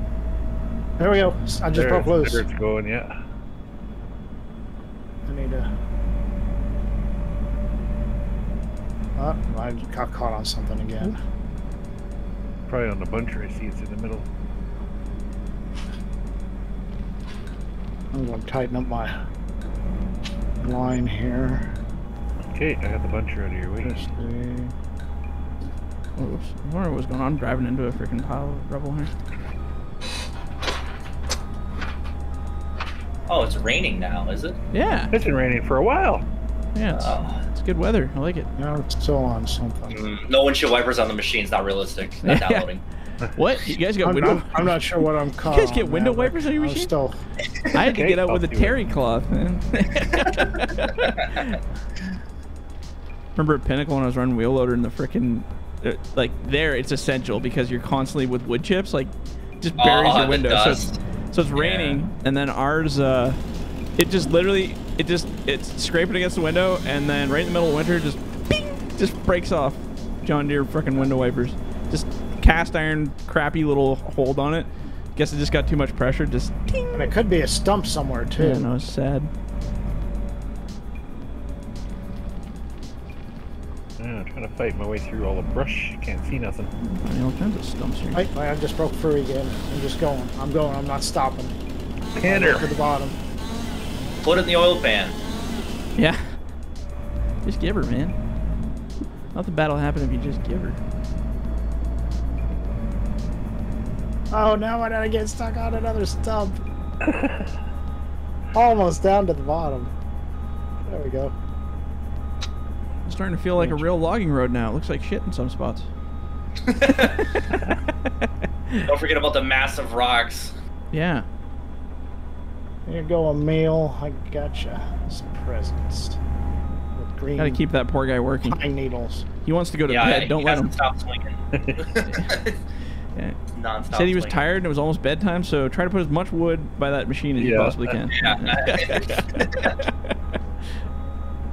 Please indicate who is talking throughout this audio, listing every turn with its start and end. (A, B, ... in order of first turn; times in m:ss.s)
0:01.0-0:02.4 A
0:01.7-0:03.1 B
0:05.3-0:05.7 A
0:09.2-0:11.2 A
0:12.7-0:14.3 B
0:18.1-0:19.1 A
0:20.6-0:21.7 A
0:22.5-0:24.1 B
0:23.8-0:24.7 A
0:26.2-0:29.1 C
0:33.3-0:34.6 D
0:34.7-0:35.1 C
0:35.1-0:36.3 B
0:36.8-0:38.5 C
0:36.9-0:37.4 D
0:38.6-0:40.0 A
0:39.9-0:42.8 D
0:42.2-0:42.7 C
0:43.4-0:44.9 C
0:44.0-0:47.2 A
0:45.4-0:46.9 C
0:47.7-0:51.6 C
0:47.8-0:48.8 B
0:53.4-1:03.4 C
0:59.8-1:01.0 D
1:01.6-1:02.0 D
1:04.0-1:17.2 C
1:16.9-1:18.7 A
1:18.4-1:19.3 C
1:24.0-1:26.7 B
1:27.0-1:28.2 C
1:28.1-1:31.6 A
1:32.2-1:32.7 B
1:32.2-1:33.2 A
1:34.2-1:35.2 D
1:36.0-1:36.4 C
1:37.4-1:38.2 C
1:39.3-1:40.8 C
1:44.3-1:46.6 A
1:47.1-1:47.4 B
1:48.5-1:49.9 A
1:50.9-1:51.3 A
1:53.1-1:55.9 C
1:56.7-1:57.2 D
1:58.8-2:00.6 D
2:00.9-2:01.3 C
2:02.9-2:06.2 A
2:07.0-2:07.6 A
2:07.4-2:08.6 C
2:08.5-2:09.2 A
2:09.4-2:10.7 C
2:09.9-2:12.6 D
2:11.5-2:11.8 B
2:12.1-2:12.4 C
2:13.5-2:14.4 D
2:13.9-2:20.1 C
2:17.4-2:18.0 B
2:18.1-2:19.8 D